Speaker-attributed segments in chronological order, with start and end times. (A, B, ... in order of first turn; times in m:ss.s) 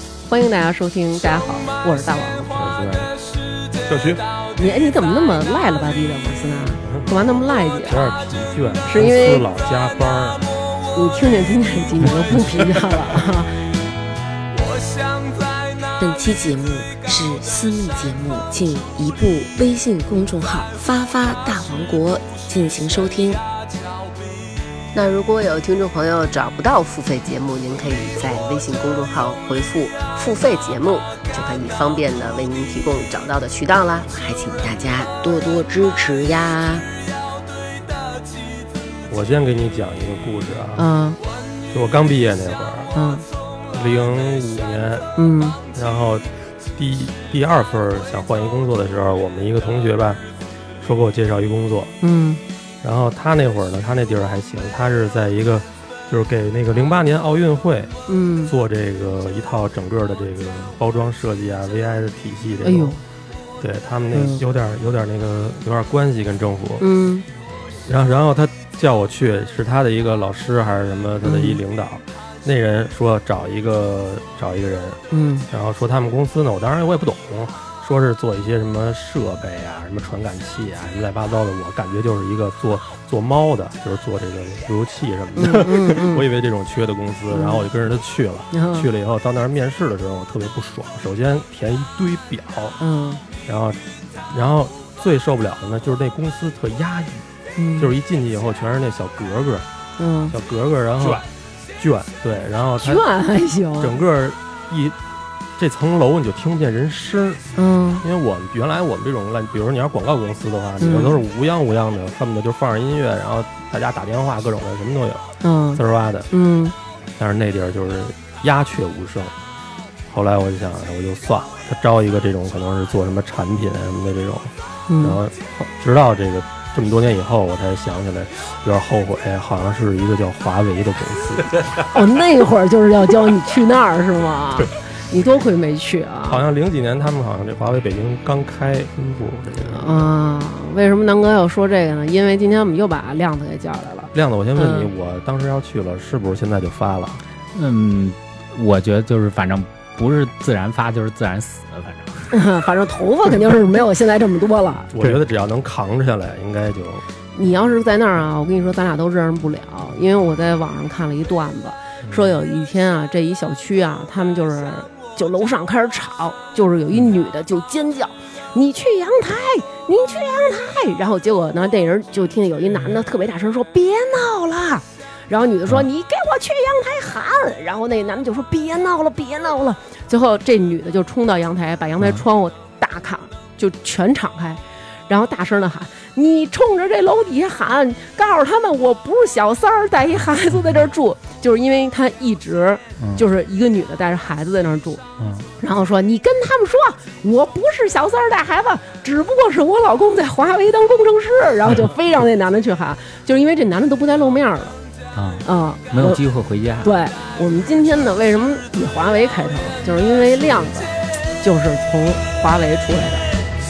0:00.2-0:02.5 A
0:02.5-0:03.1 B
0:03.8-0:04.2 B
0:04.6-0:08.1 A
0:06.9-0:07.1 B
0:07.8-0:10.4 B
0:08.9-0:09.4 A
0:10.9-0:13.5 A
0:16.0-0:23.4 C
0:24.9-0:35.2 D
0:35.2-0:36.0 C
0:36.0-0:36.4 D
0:39.1-0:40.9 B
0:40.8-0:41.2 A
0:41.7-0:42.9 B
0:42.9-0:43.2 A
0:43.7-0:45.1 B
0:45.2-0:45.6 A
0:45.7-0:50.2 B
0:50.8-0:51.9 B
0:52.0-0:52.4 A
0:52.8-0:57.9 B
0:58.1-0:58.5 A
0:58.4-1:03.0 B
1:02.6-1:03.0 A
1:03.6-1:06.9 B
1:04.1-1:04.4 A
1:06.8-1:07.3 A
1:07.8-1:32.8 B
1:11.2-1:11.6 A
1:15.1-1:15.5 A
1:25.4-1:26.3 A
1:27.3-1:27.7 A
1:28.5-1:28.9 A
1:32.8-1:33.2 A
1:33.4-1:33.8 B
1:34.3-1:37.2 B
1:37.6-1:37.9 A
1:37.8-1:39.7 B
1:40.0-1:40.3 A
1:40.3-1:41.2 B
1:41.8-1:43.0 B
1:42.8-1:43.9 A
1:43.8-1:45.0 B
1:45.6-1:47.4 B
1:47.6-1:48.0 A
1:48.0-1:56.3 B
1:50.8-1:51.2 A
1:55.4-1:56.7 A
1:57.2-1:59.3 B
2:00.1-2:11.5 B
2:04.9-2:05.2 A
2:11.8-2:16.4 A
2:16.3-2:20.1 B
2:19.7-2:24.9 A
2:24.1-2:27.2 B
2:27.5-2:32.3 E
2:32.3-2:34.9 A
2:34.9-2:37.0 B
2:37.3-3:15.0 A
2:42.0-2:42.4 B
3:15.2-3:15.5 E
3:15.6-3:24.8 A
3:25.1-3:26.9 E
3:25.4-3:26.2 A
3:26.8-3:33.3 A